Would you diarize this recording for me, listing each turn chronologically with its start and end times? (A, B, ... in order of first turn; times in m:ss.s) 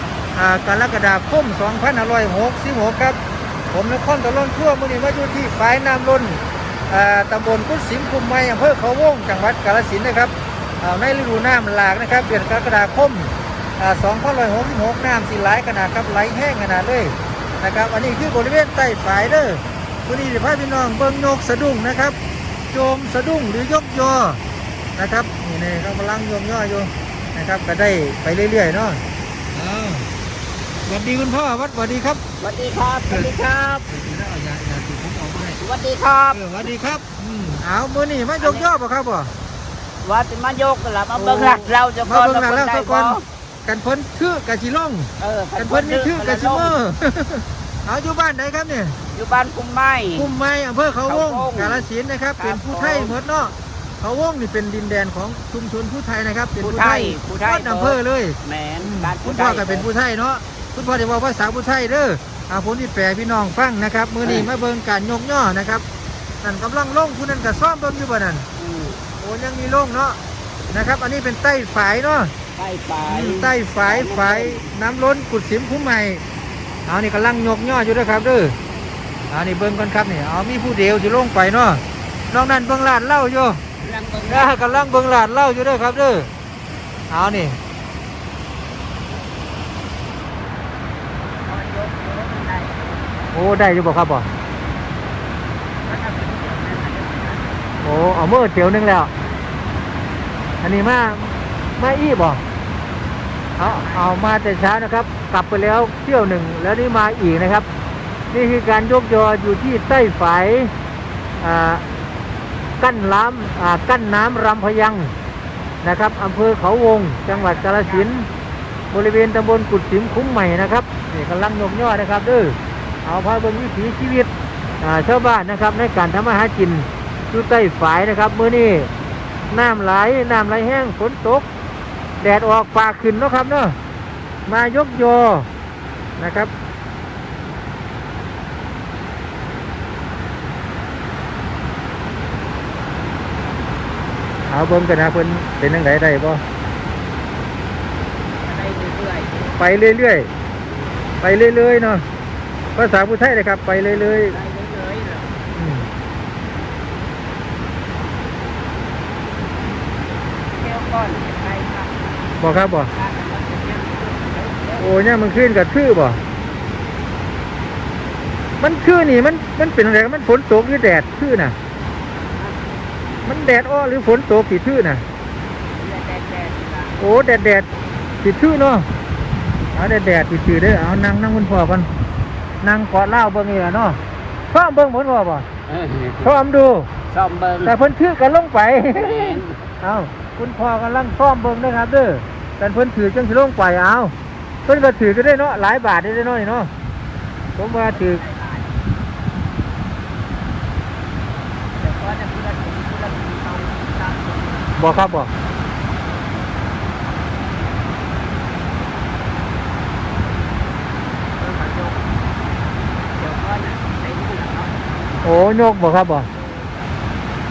0:00.4-0:03.2 A
0:03.7-0:22.2 A
0:22.7-0:24.4 A
0:25.0-0:29.0 A
0:29.5-0:30.1 A
0:30.9-0:32.2 A
0:32.4-0:33.8 B
0:33.1-0:33.3 A
0:33.8-0:35.6 A
0:35.6-0:36.4 B
0:36.3-0:39.3 A
0:38.4-0:38.7 B
0:40.0-0:43.2 B
0:41.2-0:49.0 A
0:45.2-0:46.8 B
0:49.1-0:50.3 B
0:50.1-1:05.8 A
0:51.0-0:53.2 B
0:56.6-0:59.9 B
1:04.2-1:04.5 B
1:06.4-1:08.4 A
1:08.6-1:09.0 B
1:09.2-1:10.2 A
1:10.7-1:12.3 A
1:12.6-1:14.7 B
1:13.1-1:16.2 A
1:16.9-1:18.6 A
1:19.3-1:23.6 A
1:23.8-1:25.0 B
1:24.3-1:26.3 A
1:27.1-1:27.6 A
1:31.4-1:32.9 B
1:33.3-1:34.3 A
1:35.9-1:37.6 B
1:37.8-1:39.1 A
1:40.6-1:42.4 A
1:43.6-1:47.7 A
1:43.6-1:44.2 B
1:48.3-1:50.7 A
1:51.4-1:51.8 A
1:52.8-1:55.1 A
1:55.8-1:58.3 A
1:57.2-1:58.1 B
1:58.9-2:04.3 A
2:04.8-2:08.9 A
2:09.5-2:11.4 A
2:12.2-2:13.8 A
2:14.5-2:15.5 A
2:16.2-2:16.5 A
2:24.5-2:26.4 A
2:28.4-2:29.5 B
2:29.6-2:30.3 A
2:31.2-2:32.0 A
2:32.7-2:34.4 A
2:33.8-2:35.4 B
2:35.5-2:35.9 A
2:40.5-2:42.1 B
2:42.4-2:42.9 A
2:42.9-2:44.9 B
2:44.8-2:46.2 A
2:48.6-2:51.5 A
2:52.2-2:52.6 B
2:53.2-2:55.0 A
2:55.8-2:56.9 B
2:57.0-2:57.7 A
2:58.2-2:58.9 A
2:59.7-3:01.9 A
3:02.6-3:04.0 A
3:04.5-3:05.4 A
3:05.7-3:06.4 B
3:06.2-3:06.9 A
3:07.1-3:07.7 B
3:07.6-3:14.1 A
3:08.9-3:09.6 B
3:14.6-3:16.7 A
3:17.6-3:18.2 A
3:17.6-3:18.8 B
3:21.8-3:24.6 B
3:24.8-3:25.3 A
3:31.4-3:32.0 B
3:33.1-3:34.8 B
3:35.2-3:36.3 A
3:36.3-3:36.8 B